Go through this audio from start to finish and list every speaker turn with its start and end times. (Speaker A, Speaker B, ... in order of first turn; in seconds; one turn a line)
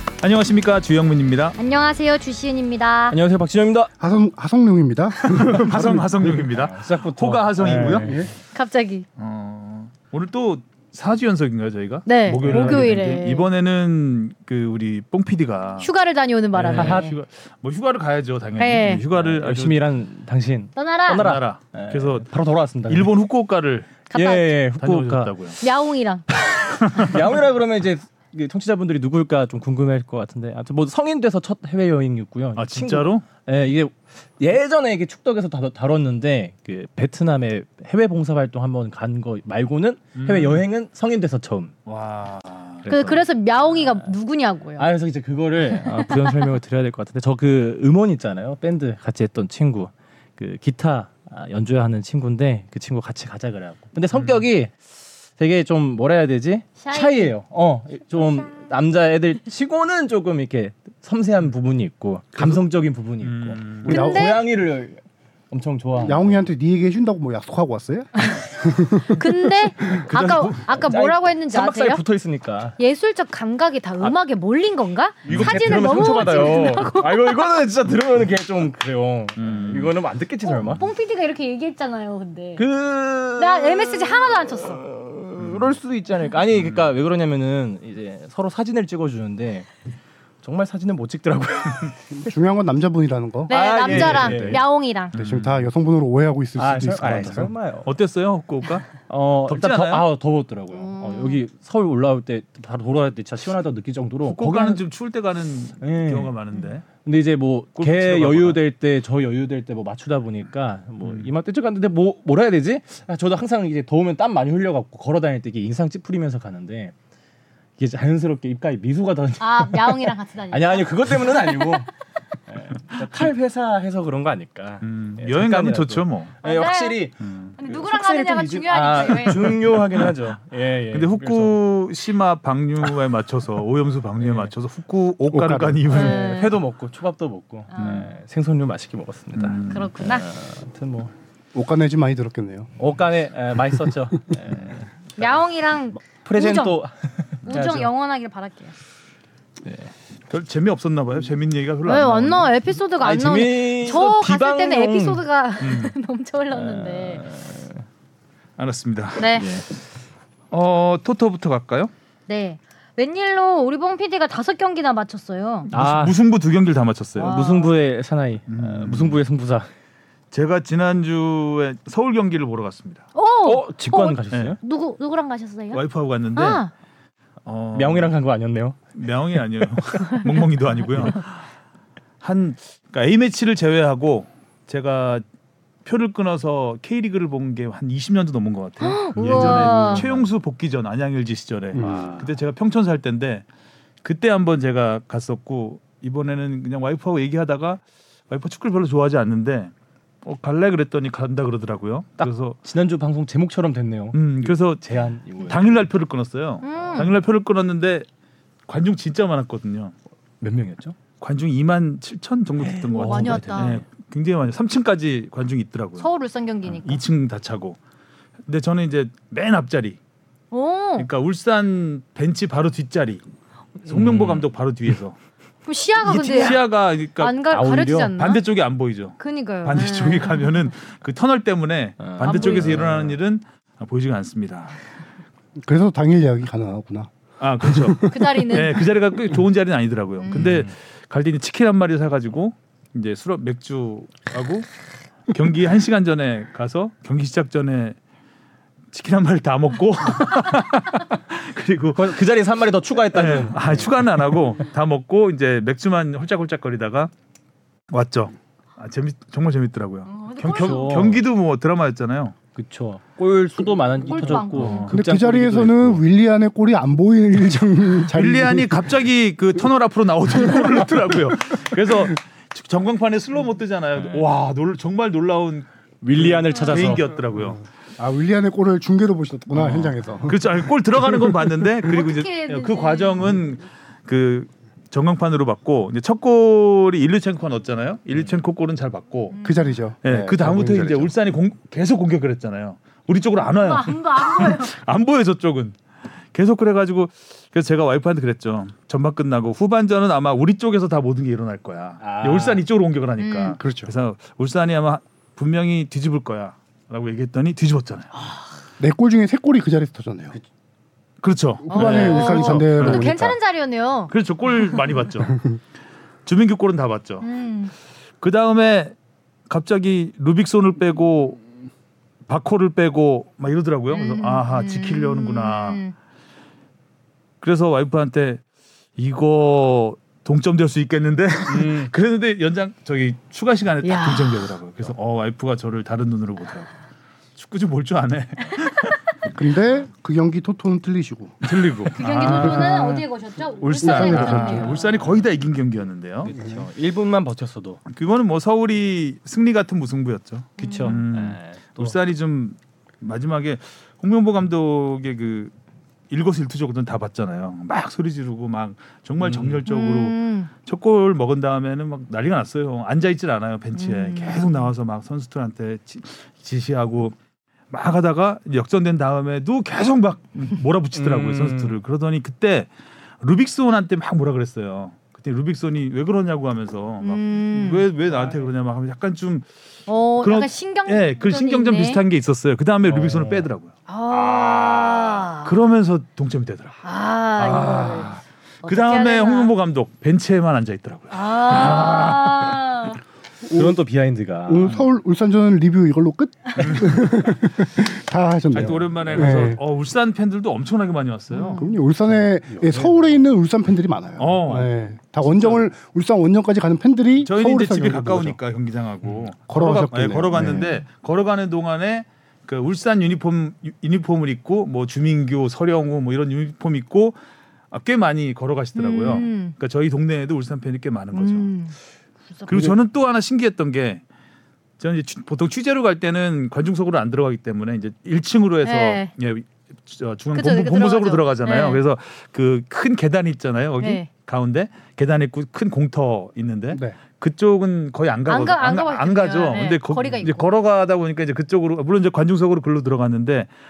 Speaker A: 0.2-1.6
Speaker B: 1.6-3.2
Speaker C: 3.1-3.9
Speaker D: 4.0-6.3
Speaker A: 5.2-8.2
Speaker C: 6.2-8.3
Speaker D: 7.8-8.3
Speaker B: 8.5-9.1
Speaker A: 9.2-15.9
Speaker B: 12.1-13.5
Speaker C: 12.4-12.9
Speaker B: 15.8-17.2
Speaker C: 16.6-17.2
Speaker A: 16.7-19.9
Speaker B: 18.6-19.0
Speaker C: 19.1-23.1
Speaker B: 20.8-21.3
Speaker A: 21.1-22.3
Speaker A: 22.9-23.9
Speaker B: 24.1-24.5
Speaker C: 24.1-25.3
Speaker A: 24.8-25.6
Speaker B: 25.6-26.3
Speaker C: 26.8-41.7
Speaker A: 32.6-33.2
Speaker A: 40.2-40.6
Speaker A: 41.9-42.9
Speaker C: 42.8-44.1
Speaker B: 42.9-44.9
Speaker C: 44.8-66.4
Speaker B: 45.8-46.2
Speaker A: 54.1-54.5
Speaker B: 56.8-57.4
Speaker A: 62.4-62.6
Speaker A: 63.2-64.0
Speaker D: 63.8-64.3
Speaker B: 63.9-64.5
Speaker D: 66.0-69.2
Speaker B: 69.1-72.0
Speaker C: 70.1-72.8
Speaker A: 70.1-70.7
Speaker B: 72.8-77.4
Speaker C: 75.2-80.9
Speaker A: 75.3-76.8
Speaker A: 79.4-80.0
Speaker B: 80.4-82.6
Speaker C: 82.6-89.7
Speaker B: 83.4-84.8
Speaker A: 85.4-85.8
Speaker A: 86.5-86.9
Speaker C: 90.4-92.0
Speaker D: 92.1-94.6
Speaker C: 93.5-94.6
Speaker B: 93.5-95.1
Speaker A: 95.1-95.7
Speaker D: 95.1-97.5
Speaker C: 96.6-97.9
Speaker A: 97.0-100.1
Speaker C: 99.0-104.8
Speaker B: 100.7-101.4
Speaker A: 104.3-106.9
Speaker C: 105.8-106.4
Speaker C: 107.0-116.9
Speaker A: 107.8-108.6
Speaker C: 117.8-121.9
Speaker B: 119.4-121.8
Speaker C: 122.5-131.6
Speaker A: 124.8-126.3
Speaker B: 126.4-127.1
Speaker A: 127.2-127.5
Speaker B: 127.6-129.6
Speaker A: 129.3-130.2
Speaker A: 130.9-136.3
Speaker C: 134.2-134.5
Speaker D: 135.3-135.8
Speaker C: 135.8-141.1
Speaker B: 135.9-136.6
Speaker B: 137.7-138.1
Speaker A: 137.8-138.1
Speaker A: 139.3-139.9
Speaker B: 139.7-140.3
Speaker D: 141.5-142.7
Speaker C: 142.8-145.4
Speaker B: 145.2-146.8
Speaker C: 146.0-147.9
Speaker B: 147.5-148.8
Speaker C: 149.6-149.9
Speaker A: 150.3-152.5
Speaker B: 151.8-157.2
Speaker C: 153.0-155.2
Speaker A: 155.6-155.9
Speaker C: 156.5-157.8
Speaker A: 158.6-159.5
Speaker B: 159.2-159.5
Speaker C: 159.3-159.7
Speaker A: 160.5-161.9
Speaker B: 162.3-165.7
Speaker A: 165.7-167.4
Speaker C: 165.7-166.2
Speaker B: 167.2-167.7
Speaker C: 167.2-169.7
Speaker A: 168.5-169.2
Speaker A: 170.3-173.1
Speaker B: 173.2-175.8
Speaker C: 173.4-174.6
Speaker A: 174.3-174.6
Speaker A: 175.7-176.6
Speaker B: 176.3-176.7
Speaker A: 177.4-178.1
Speaker C: 177.7-178.8
Speaker A: 179.0-181.4
Speaker A: 182.2-185.2
Speaker A: 185.8-193.4
Speaker B: 188.8-190.1
Speaker C: 189.2-190.2
Speaker D: 191.7-192.3
Speaker C: 191.8-192.3
Speaker A: 194.0-199.7
Speaker A: 200.2-202.6
Speaker C: 202.2-205.9
Speaker A: 204.1-208.1
Speaker B: 206.6-207.1
Speaker A: 208.7-209.9
Speaker C: 210.4-211.0
Speaker A: 211.2-216.1
Speaker C: 212.6-213.8
Speaker B: 212.9-213.8
Speaker B: 216.0-217.0
Speaker A: 216.7-217.8
Speaker A: 218.5-220.0
Speaker B: 220.5-221.1
Speaker A: 221.0-223.2
Speaker C: 223.9-224.4
Speaker A: 223.9-225.2
Speaker B: 225.7-226.6
Speaker A: 226.0-234.8
Speaker B: 227.2-228.4
Speaker C: 227.5-228.1
Speaker B: 229.2-230.7
Speaker C: 232.0-233.2
Speaker B: 232.2-232.8
Speaker D: 235.6-238.2
Speaker A: 237.4-244.7
Speaker B: 238.1-238.8
Speaker B: 240.2-240.5
Speaker C: 240.3-240.7
Speaker A: 245.3-248.0
Speaker A: 248.9-252.2
Speaker C: 251.9-254.0
Speaker A: 253.1-257.1
Speaker A: 257.9-262.4
Speaker B: 260.1-261.1
Speaker C: 260.5-261.2
Speaker C: 262.5-266.0
Speaker B: 264.1-264.9
Speaker A: 264.5-264.9
Speaker D: 264.9-269.0
Speaker A: 268.1-277.6
Speaker D: 270.3-271.3
Speaker C: 274.0-274.3
Speaker C: 276.0-277.1
Speaker B: 276.5-277.0
Speaker D: 277.4-281.6
Speaker A: 279.5-289.4
Speaker B: 281.9-283.3
Speaker B: 289.3-289.7
Speaker D: 289.4-291.1
Speaker A: 290.0-295.8
Speaker B: 293.5-294.7
Speaker A: 296.3-308.1
Speaker C: 302.0-302.6
Speaker B: 303.2-303.6
Speaker D: 303.6-303.9
Speaker D: 308.8-310.4
Speaker A: 311.2-313.3
Speaker D: 311.7-313.4
Speaker B: 311.7-314.1
Speaker A: 314.1-315.4
Speaker D: 315.3-315.6
Speaker A: 316.2-317.3
Speaker B: 317.2-317.7
Speaker A: 318.2-318.9
Speaker A: 319.5-321.4
Speaker A: 322.3-325.8
Speaker B: 323.9-325.9
Speaker A: 327.4-328.4
Speaker A: 329.0-336.7
Speaker C: 331.5-331.9
Speaker B: 333.8-334.5
Speaker A: 337.4-339.4
Speaker D: 339.3-341.4
Speaker A: 341.4-342.7
Speaker B: 341.9-345.1
Speaker C: 342.0-343.1
Speaker A: 343.6-346.3
Speaker C: 343.8-344.9
Speaker D: 344.0-344.4
Speaker C: 346.2-347.8
Speaker D: 346.3-346.7
Speaker A: 347.9-355.5
Speaker B: 350.6-351.0
Speaker C: 350.6-352.0
Speaker A: 356.1-367.1
Speaker C: 359.2-359.6
Speaker B: 359.7-360.5
Speaker B: 363.8-364.7
Speaker A: 367.7-372.7
Speaker C: 370.9-371.8
Speaker A: 373.2-379.5
Speaker B: 377.0-377.9
Speaker C: 378.1-378.5
Speaker B: 379.9-382.0
Speaker A: 380.2-383.7
Speaker C: 382.9-383.5
Speaker B: 383.9-385.6
Speaker C: 384.1-385.0
Speaker A: 385.1-386.8
Speaker B: 386.8-389.5
Speaker A: 387.4-392.6
Speaker B: 391.1-393.0
Speaker D: 393.4-393.8
Speaker C: 393.5-394.8
Speaker D: 394.5-399.6
Speaker A: 398.5-401.6
Speaker C: 398.6-399.5
Speaker B: 401.3-401.8
Speaker D: 401.5-408.4
Speaker C: 402.1-403.1
Speaker A: 404.2-404.7
Speaker A: 405.2-405.7
Speaker A: 407.2-417.2
Speaker D: 409.5-410.7
Speaker A: 417.7-421.5
Speaker B: 418.8-419.6
Speaker B: 421.1-421.8
Speaker B: 422.3-422.7
Speaker A: 422.5-424.0
Speaker A: 424.8-443.5
Speaker B: 428.6-429.1
Speaker B: 430.3-431.8
Speaker B: 433.8-434.1
Speaker D: 436.7-437.0
Speaker B: 438.3-440.5